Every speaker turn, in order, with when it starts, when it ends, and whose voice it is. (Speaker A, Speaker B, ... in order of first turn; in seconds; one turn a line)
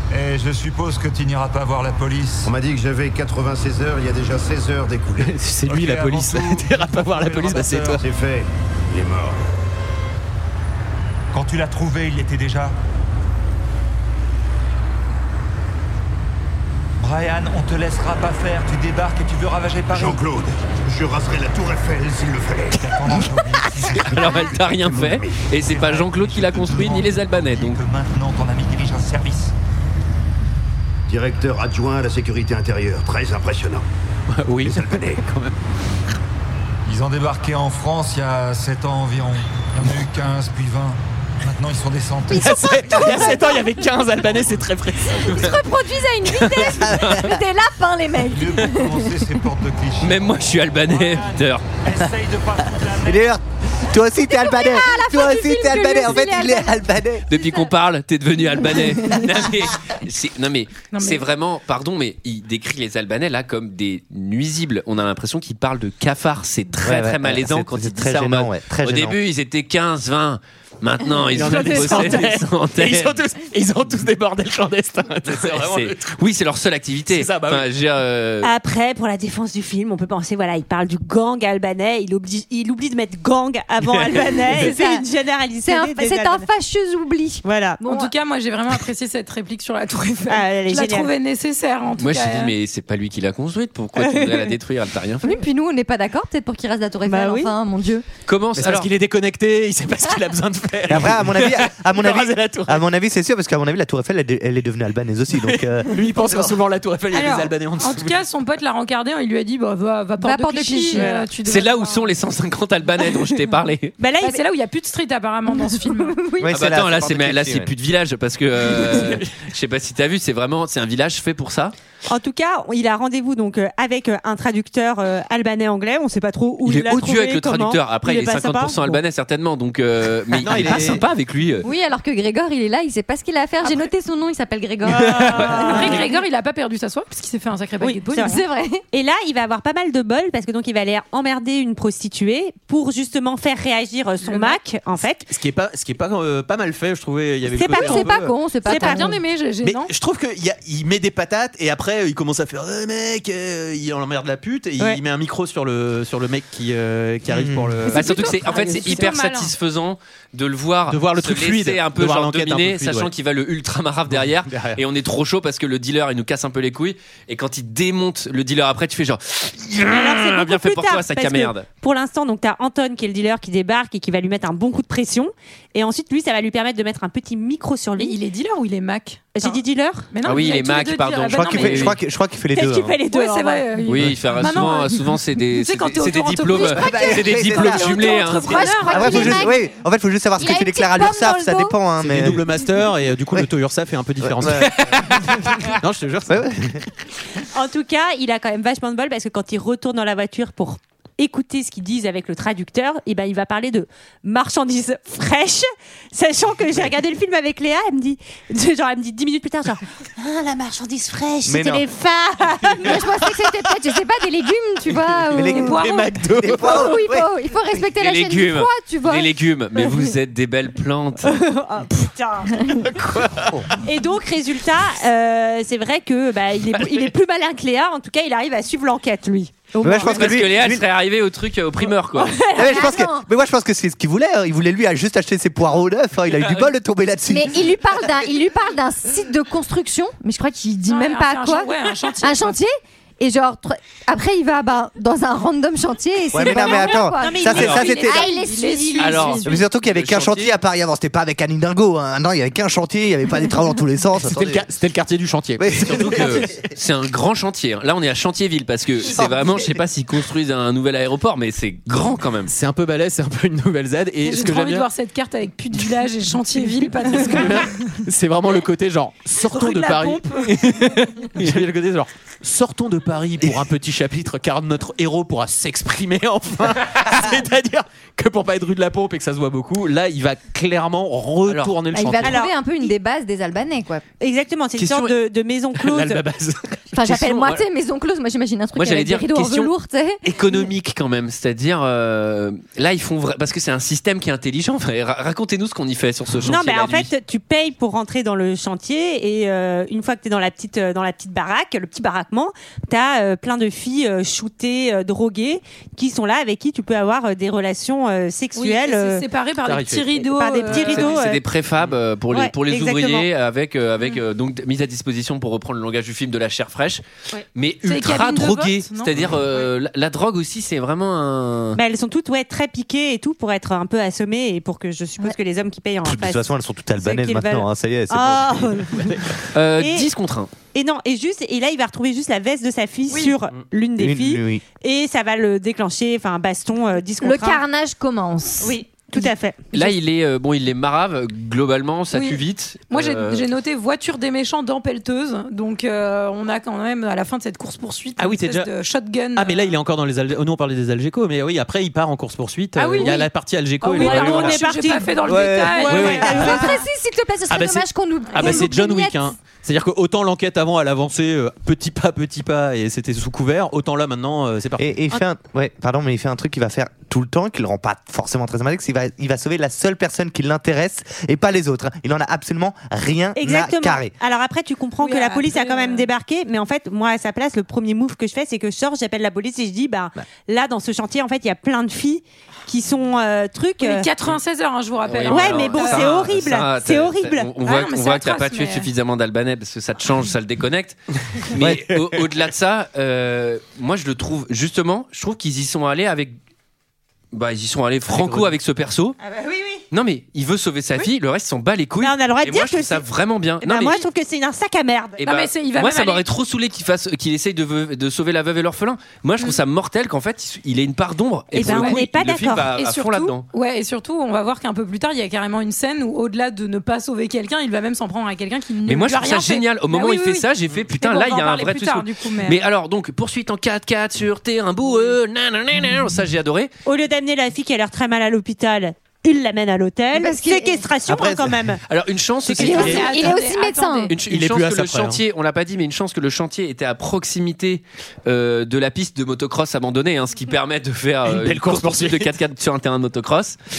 Speaker A: 0.1-2.5
Speaker B: 2.4-5.3
Speaker C: 5.2-8.0
Speaker A: 5.6-8.0
Speaker B: 8.0-9.4
Speaker A: 11.3-12.8
Speaker A: 17.0-20.3
Speaker B: 19.9-25.5
Speaker A: 22.8-24.1
Speaker D: 24.0-27.8
Speaker A: 25.6-29.5
Speaker B: 31.1-33.8
Speaker C: 34.3-35.5
Speaker B: 34.6-35.2
Speaker A: 36.9-43.2
Speaker C: 42.3-45.4
Speaker E: 42.3-43.8
Speaker E: 45.2-49.3
Speaker D: 46.3-47.3
Speaker F: 46.8-47.2
Speaker A: 48.2-53.4
Speaker D: 50.0-51.6
Speaker F: 53.0-57.2
Speaker E: 54.3-57.7
Speaker D: 57.3-73.2
Speaker E: 58.6-59.3
Speaker G: 60.9-61.2
Speaker F: 66.8-69.2
Speaker C: 71.3-76.2
Speaker D: 75.2-78.5
Speaker C: 77.1-77.7
Speaker H: 78.4-86.5
Speaker E: 84.5-85.0
Speaker E: 85.6-88.1
Speaker H: 87.4-88.1
Speaker G: 87.8-92.5
Speaker H: 90.3-91.1
Speaker D: 92.0-95.3
Speaker H: 94.0-94.5
Speaker E: 95.2-98.0
Speaker H: 97.0-97.5
Speaker D: 98.3-98.9
Speaker C: 98.5-102.8
Speaker F: 100.9-106.5
Speaker C: 105.4-108.2
Speaker G: 107.1-112.1
Speaker E: 110.2-111.2
Speaker H: 110.9-111.3
Speaker D: 111.4-114.0
Speaker H: 114.0-114.4
Speaker G: 114.2-116.2
Speaker E: 115.5-116.5
Speaker F: 116.4-117.7
Speaker D: 116.5-121.7
Speaker C: 118.6-119.3
Speaker H: 122.1-128.8
Speaker D: 126.7-131.7
Speaker C: 130.3-131.0
Speaker E: 131.6-136.1
Speaker H: 134.9-136.2
Speaker D: 135.0-135.7
Speaker G: 135.5-138.4
Speaker H: 137.8-138.4
Speaker E: 138.2-138.8
Speaker H: 138.9-145.3
Speaker G: 144.2-144.6
Speaker C: 145.3-148.3
Speaker H: 147.5-148.1
Speaker E: 147.7-149.2
Speaker H: 148.6-149.2
Speaker G: 148.6-149.9
Speaker C: 149.6-158.3
Speaker F: 157.3-157.8
Speaker G: 157.8-159.5
Speaker D: 157.9-171.7
Speaker C: 160.9-163.1
Speaker C: 164.1-164.8
Speaker H: 169.9-178.2
Speaker G: 178.0-182.0
Speaker H: 179.3-180.1
Speaker D: 180.2-182.0
Speaker F: 181.3-183.0
Speaker H: 182.5-183.8
Speaker G: 183.1-189.5
Speaker D: 183.8-188.9
Speaker F: 186.6-188.2
Speaker E: 188.2-189.6
Speaker F: 188.8-192.4
Speaker E: 190.4-191.8
Speaker C: 192.0-196.8
Speaker F: 194.2-194.7
Speaker D: 194.7-195.7
Speaker F: 196.3-196.8
Speaker H: 197.5-213.1
Speaker F: 211.4-211.8
Speaker E: 212.8-215.9
Speaker F: 215.3-217.3
Speaker G: 215.5-216.1
Speaker C: 215.7-216.9
Speaker E: 216.6-219.3
Speaker D: 218.0-221.4
Speaker H: 221.2-222.7
Speaker C: 222.9-223.6
Speaker H: 223.8-230.4
Speaker F: 229.8-230.8
Speaker D: 230.0-232.3
Speaker H: 232.1-233.0
Speaker F: 232.6-238.1
Speaker E: 232.6-233.2
Speaker D: 236.3-236.7
Speaker E: 237.3-249.4
Speaker G: 240.9-242.6
Speaker F: 246.3-248.3
Speaker H: 246.6-248.4
Speaker D: 247.6-247.8
Speaker G: 247.6-249.6
Speaker D: 249.0-250.5
Speaker F: 249.4-254.6
Speaker C: 254.2-256.4
Speaker F: 255.6-256.5
Speaker D: 255.8-262.5
Speaker F: 259.1-259.6
Speaker C: 262.5-264.9
Speaker G: 264.2-268.0
Speaker C: 267.1-282.4
Speaker G: 269.4-270.7
Speaker D: 281.4-281.8
Speaker E: 281.9-284.0
Speaker H: 282.2-282.9
Speaker H: 284.2-286.2
Speaker D: 284.8-285.1
Speaker C: 285.8-287.1
Speaker E: 286.9-290.2
Speaker D: 287.1-287.6
Speaker D: 288.8-289.7
Speaker D: 290.2-297.1
Speaker H: 296.4-309.3
Speaker G: 308.5-311.2
Speaker C: 309.6-310.1
Speaker H: 310.1-311.4
Speaker D: 310.8-317.0
Speaker H: 312.3-313.3
Speaker D: 317.5-321.8
Speaker G: 317.8-319.2
Speaker H: 321.8-329.1
Speaker F: 326.0-328.8
Speaker C: 328.9-329.4
Speaker D: 329.5-330.5
Speaker H: 329.8-330.1
Speaker H: 330.7-337.6
Speaker G: 333.1-333.3
Speaker F: 334.0-334.6
Speaker E: 337.2-339.3
Speaker H: 338.6-339.7
Speaker D: 339.7-343.4
Speaker G: 342.1-349.7
Speaker C: 348.2-348.7
Speaker C: 349.3-354.8
Speaker G: 352.8-356.9
Speaker H: 353.9-356.8
Speaker F: 355.2-356.0
Speaker C: 355.8-356.5
Speaker E: 356.0-359.2
Speaker C: 357.5-364.9
Speaker G: 358.3-358.7
Speaker F: 364.8-374.1
Speaker H: 373.4-384.1
Speaker G: 375.0-376.1
Speaker G: 383.8-386.2
Speaker D: 385.0-396.4
Speaker H: 385.3-387.5
Speaker G: 387.6-388.9
Speaker D: 397.3-399.2
Speaker C: 398.1-398.5
Speaker H: 399.2-399.8
Speaker D: 399.9-404.0
Speaker H: 402.0-403.0
Speaker H: 403.6-405.2
Speaker D: 405.2-413.5
Speaker G: 405.2-406.2
Speaker H: 411.5-412.7
Speaker G: 411.6-412.0
Speaker G: 412.7-422.6
Speaker D: 418.9-426.7
Speaker H: 426.9-431.8
Speaker E: 430.1-430.9
Speaker F: 431.1-431.6
Speaker D: 431.9-433.0
Speaker H: 432.4-433.2
Speaker E: 432.6-434.1
Speaker C: 432.6-433.1
Speaker G: 432.7-434.1
Speaker D: 434.1-443.6
Speaker C: 434.2-435.2
Speaker C: 441.2-442.3